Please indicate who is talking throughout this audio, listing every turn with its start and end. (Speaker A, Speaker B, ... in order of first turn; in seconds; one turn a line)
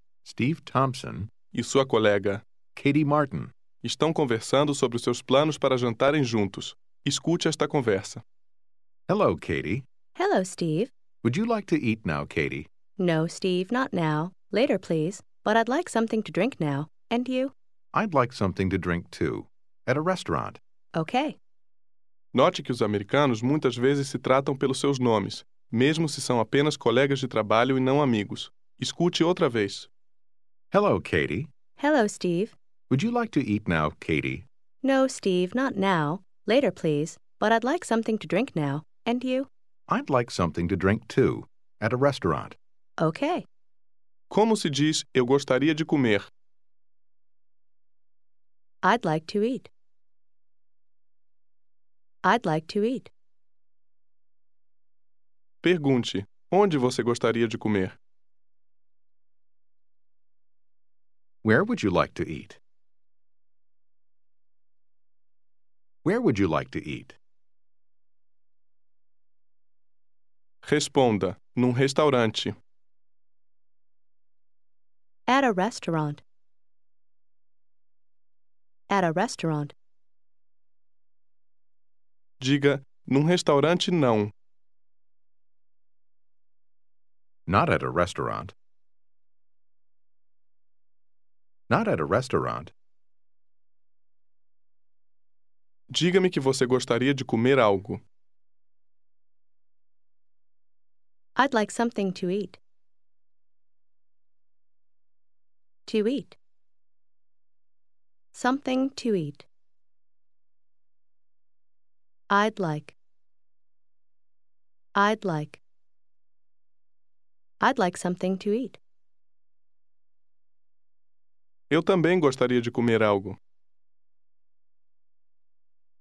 Speaker A: 0.2-1.3
Speaker B: 1.5-2.4
Speaker A: 2.8-3.5
Speaker B: 3.8-8.2
Speaker A: 9.1-9.8
Speaker C: 10.2-10.9
Speaker A: 11.2-12.7
Speaker C: 13.0-17.5
Speaker A: 17.9-20.6
Speaker C: 20.9-21.4
Speaker B: 22.3-29.9
Speaker A: 30.7-31.5
Speaker C: 31.8-32.5
Speaker A: 32.9-34.5
Speaker C: 34.8-39.5
Speaker A: 39.9-42.6
Speaker C: 43.0-43.5
Speaker B: 44.3-46.3
Speaker C: 48.8-49.7
Speaker C: 52.2-53.1
Speaker B: 55.6-58.0
Speaker A: 61.4-62.6
Speaker A: 66.0-67.2
Speaker B: 70.6-72.5
Speaker C: 75.3-76.2
Speaker C: 78.9-79.7
Speaker B: 82.4-84.3
Speaker A: 87.5-88.5
Speaker A: 91.7-92.7
Speaker B: 95.9-98.0
Speaker C: 101.3-102.6
Speaker C: 105.8-106.4
Speaker C: 108.3-109.5
Speaker C: 112.3-112.9
Speaker C: 114.9-115.6
Speaker C: 117.6-118.8
Speaker B: 121.7-123.4